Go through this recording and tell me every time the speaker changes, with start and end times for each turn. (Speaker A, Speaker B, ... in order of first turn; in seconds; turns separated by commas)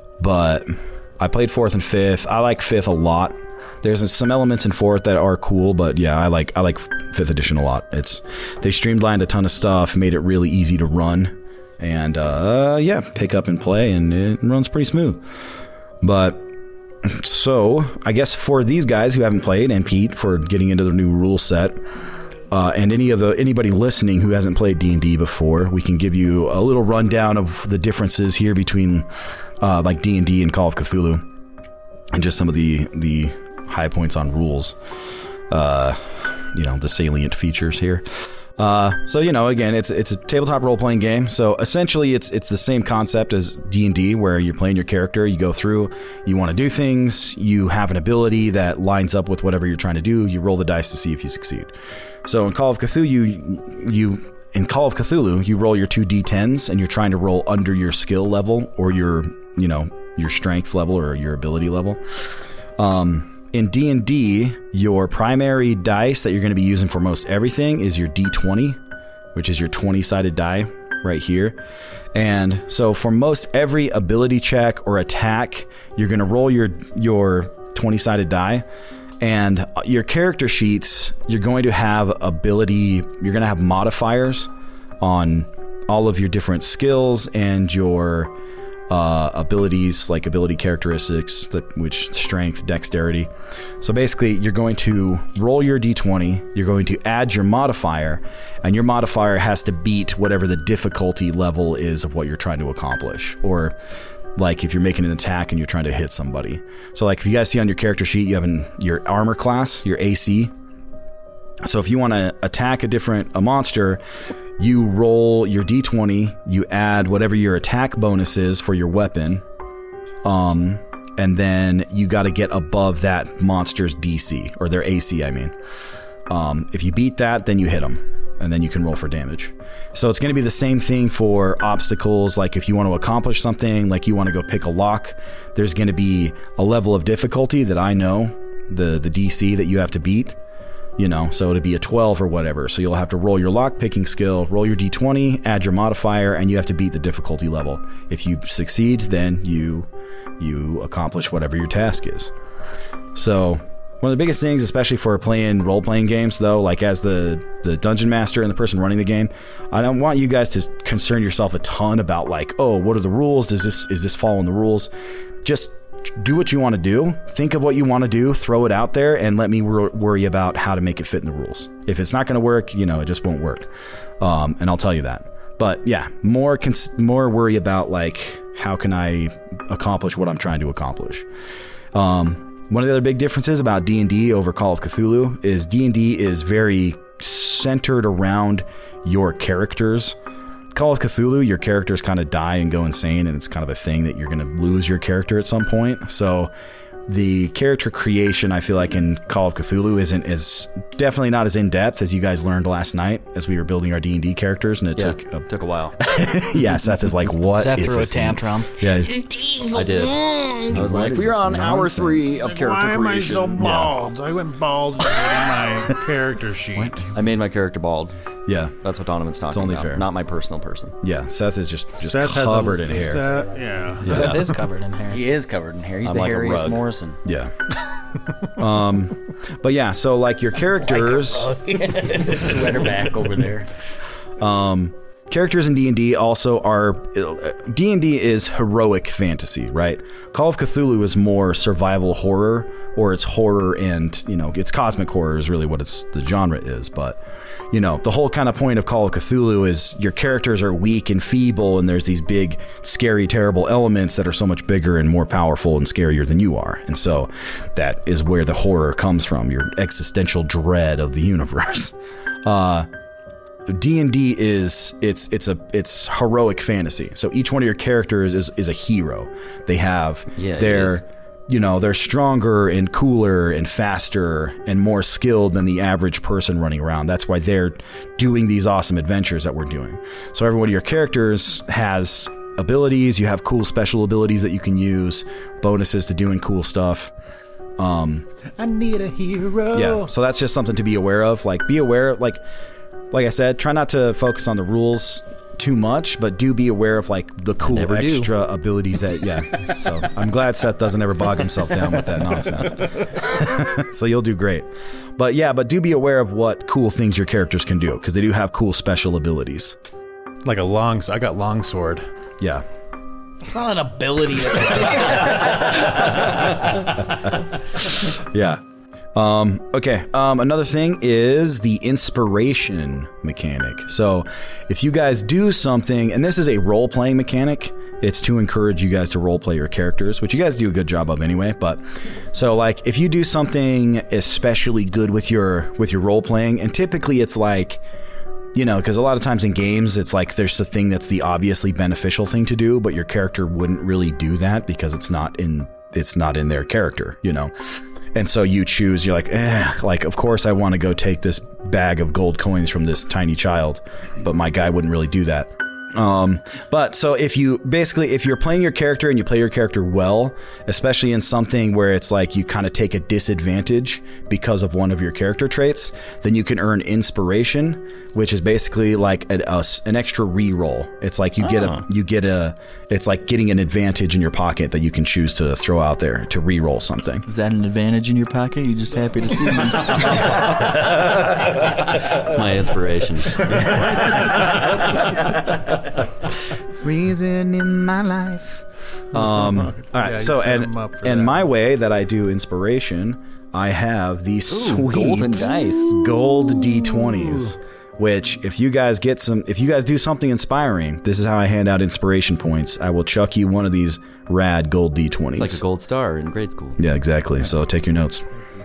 Speaker A: 0.2-15.2, Speaker A: 16.0-16.5, Speaker A: 17.0-21.8, Speaker A: 22.5-29.1, Speaker A: 29.6-31.2, Speaker A: 32.1-34.8, Speaker A: 35.5-38.0, Speaker A: 38.6-51.7, Speaker A: 52.2-62.0, Speaker A: 62.8-68.8, Speaker A: 69.3-71.6, Speaker A: 72.1-78.6, Speaker A: 79.2-84.5, Speaker A: 85.0-88.3, Speaker A: 88.9-103.7, Speaker A: 104.3-110.5, Speaker A: 111.6-114.0, Speaker A: 114.6-119.4, Speaker A: 120.2-125.5, Speaker A: 126.3-140.4, Speaker A: 141.0-149.9, Speaker A: 150.4-152.3, Speaker A: 153.1-164.9, Speaker A: 165.4-173.7, Speaker A: 174.2-181.3, Speaker A: 181.9-190.2, Speaker A: 190.7-196.5, Speaker A: 197.1-205.5, Speaker B: 205.0-205.9, Speaker A: 206.0-209.2, Speaker C: 207.5-210.7, Speaker B: 209.7-213.9, Speaker A: 210.7-212.4, Speaker D: 212.4-217.1, Speaker B: 217.0-218.1, Speaker A: 218.4-218.8, Speaker B: 218.8-220.9, Speaker A: 219.5-220.0, Speaker A: 221.0-223.4, Speaker D: 222.0-224.5, Speaker C: 224.0-225.2, Speaker A: 224.0-224.3, Speaker B: 224.1-224.4, Speaker E: 225.1-227.2, Speaker B: 226.0-226.8, Speaker A: 227.2-227.5, Speaker A: 228.5-231.5, Speaker E: 230.8-233.7, Speaker A: 234.4-247.2, Speaker A: 247.7-262.9, Speaker A: 263.7-287.1, Speaker B: 270.3-271.0, Speaker A: 287.8-288.3, Speaker D: 288.6-290.1, Speaker A: 289.7-292.4, Speaker A: 293.1-309.8, Speaker B: 297.6-298.3, Speaker D: 310.4-312.1, Speaker C: 313.7-315.2, Speaker A: 318.0-318.6, Speaker A: 319.1-337.8, Speaker A: 338.5-377.2, Speaker B: 371.4-371.8, Speaker F: 377.3-380.5, Speaker B: 382.1-383.9, Speaker A: 386.8-387.2, Speaker F: 387.1-388.1, Speaker A: 387.9-388.4, Speaker A: 389.1-405.6, Speaker D: 389.1-391.5, Speaker B: 394.9-395.9, Speaker B: 405.4-406.8, Speaker A: 406.8-408.2